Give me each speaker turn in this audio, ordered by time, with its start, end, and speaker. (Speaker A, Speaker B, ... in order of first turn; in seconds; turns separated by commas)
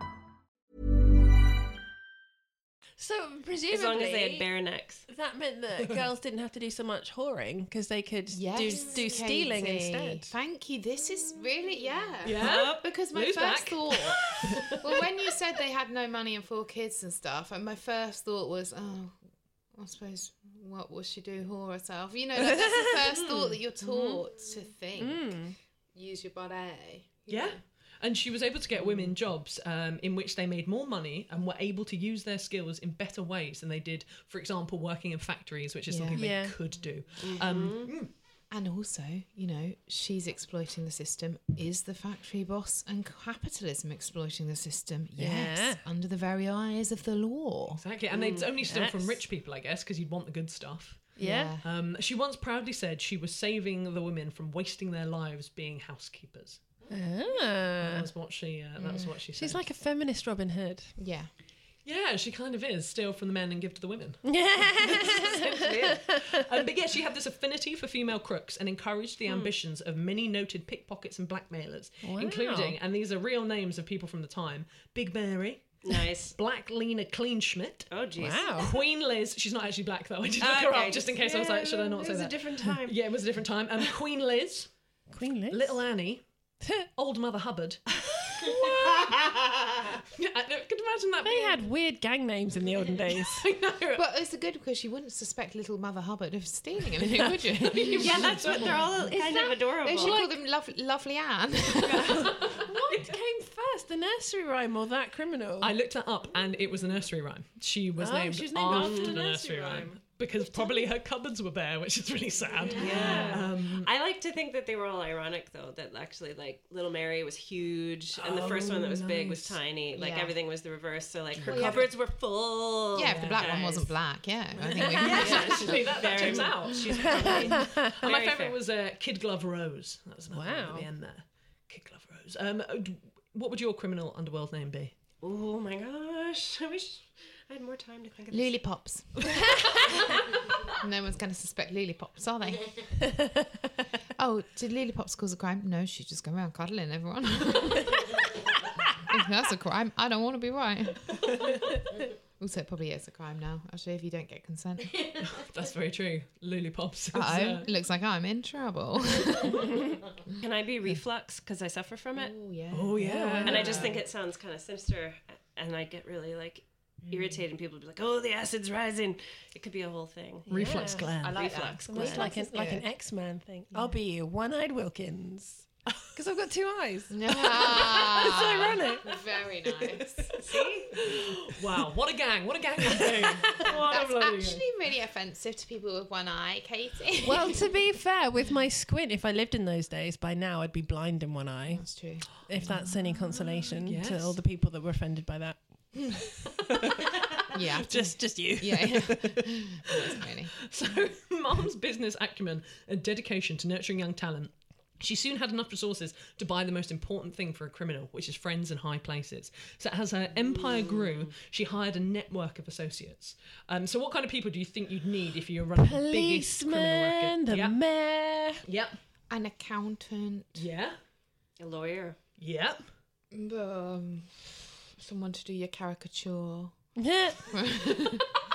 Speaker A: 3.0-4.5, Speaker B: 3.7-5.1, Speaker A: 5.1-10.3, Speaker C: 8.3-19.2, Speaker D: 12.2-15.0, Speaker B: 12.3-12.9, Speaker C: 19.7-27.6, Speaker A: 22.4-23.0, Speaker A: 23.8-24.2, Speaker A: 25.0-25.6, Speaker D: 27.3-38.1, Speaker C: 28.8-29.1, Speaker C: 35.9-36.2, Speaker A: 36.1-36.6, Speaker B: 37.2-37.9, Speaker C: 38.5-47.8, Speaker A: 45.2-45.8, Speaker D: 47.8-56.6, Speaker B: 48.1-48.5, Speaker A: 48.6-49.2, Speaker A: 51.2-51.6, Speaker C: 51.2-51.6, Speaker A: 56.9-58.1, Speaker D: 57.8-59.6, Speaker C: 58.8-59.1, Speaker A: 59.4-61.0, Speaker C: 61.0-61.3, Speaker D: 61.9-77.9, Speaker A: 64.2-66.4, Speaker B: 69.3-69.5, Speaker A: 72.0-72.8, Speaker B: 75.8-76.3, Speaker B: 77.9-78.7, Speaker A: 78.2-78.7, Speaker D: 78.6-84.7, Speaker B: 80.4-83.0, Speaker A: 85.1-85.8, Speaker D: 85.5-86.2, Speaker D: 87.0-91.7, Speaker A: 91.2-93.5, Speaker D: 93.1-94.0, Speaker C: 93.9-98.8, Speaker A: 97.1-98.1, Speaker D: 97.8-98.8, Speaker B: 98.0-100.2, Speaker A: 98.9-100.3, Speaker C: 99.8-102.4, Speaker A: 101.8-105.7, Speaker D: 102.0-103.1, Speaker D: 105.6-113.9, Speaker A: 108.0-110.9, Speaker B: 108.7-109.2, Speaker A: 112.7-113.4, Speaker B: 112.8-124.0, Speaker C: 112.8-113.3, Speaker D: 118.2-119.6, Speaker C: 119.9-120.3, Speaker D: 121.3-121.9, Speaker C: 121.5-121.9, Speaker C: 122.9-126.5, Speaker B: 124.7-128.6, Speaker A: 124.8-125.4, Speaker D: 124.9-134.9, Speaker A: 127.0-128.0, Speaker A: 130.3-130.9, Speaker B: 135.2-138.6, Speaker C: 138.3-139.6, Speaker C: 140.1-143.0, Speaker C: 144.2-148.2, Speaker C: 149.0-151.5, Speaker C: 152.4-155.3, Speaker D: 155.2-157.7, Speaker C: 157.1-159.8, Speaker B: 160.4-162.3, Speaker C: 162.2-164.0, Speaker D: 162.7-164.0, Speaker A: 163.0-163.8, Speaker B: 163.4-172.3, Speaker C: 167.0-167.4, Speaker A: 170.5-171.1, Speaker D: 170.5-171.8, Speaker C: 171.2-172.9, Speaker A: 171.9-180.5, Speaker C: 173.7-174.0, Speaker C: 177.1-180.3, Speaker B: 180.4-180.9, Speaker D: 180.9-184.6, Speaker A: 182.9-183.6, Speaker C: 183.7-187.8, Speaker B: 183.7-184.0, Speaker A: 187.2-199.5, Speaker C: 191.7-193.2, Speaker D: 193.7-194.4, Speaker C: 197.5-200.5, Speaker D: 200.7-217.8, Speaker B: 210.6-211.1, Speaker A: 215.8-218.6, Speaker D: 218.7-219.0, Speaker C: 219.3-220.7, Speaker D: 220.6-221.0, Speaker B: 221.6-222.2, Speaker D: 222.4-222.8, Speaker C: 223.3-226.8, Speaker A: 227.0-227.6, Speaker C: 227.5-228.3